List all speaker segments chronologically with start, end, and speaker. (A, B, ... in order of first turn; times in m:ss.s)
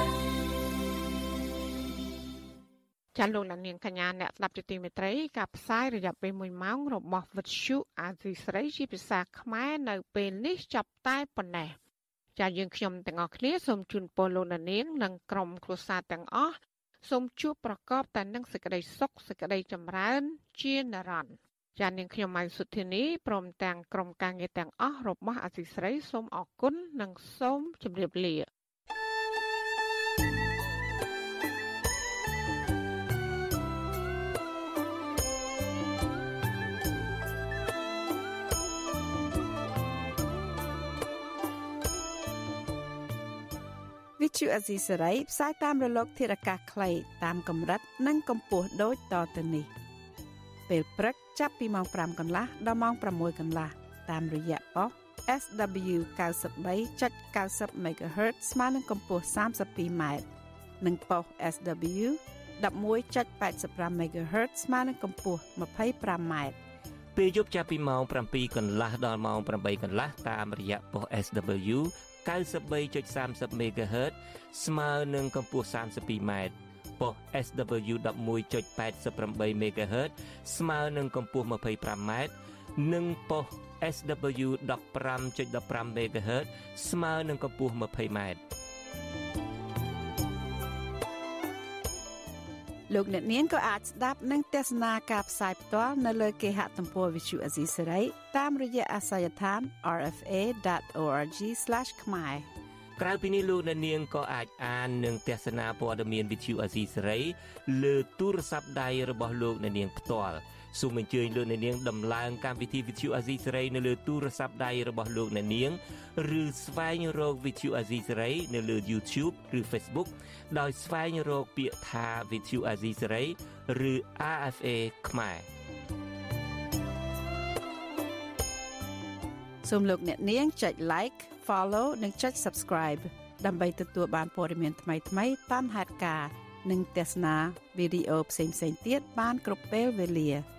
0:03.1-0:11.8 A
0:12.4-0:28.4 A
0:44.2-0:49.7 B
0:50.7-1:00.2 B
1:00.8-1:06.6 B
1:07.1-1:28.4 C
1:32.9-1:42.5 B
1:43.0-2:05.4 C
2:09.6-2:20.4 B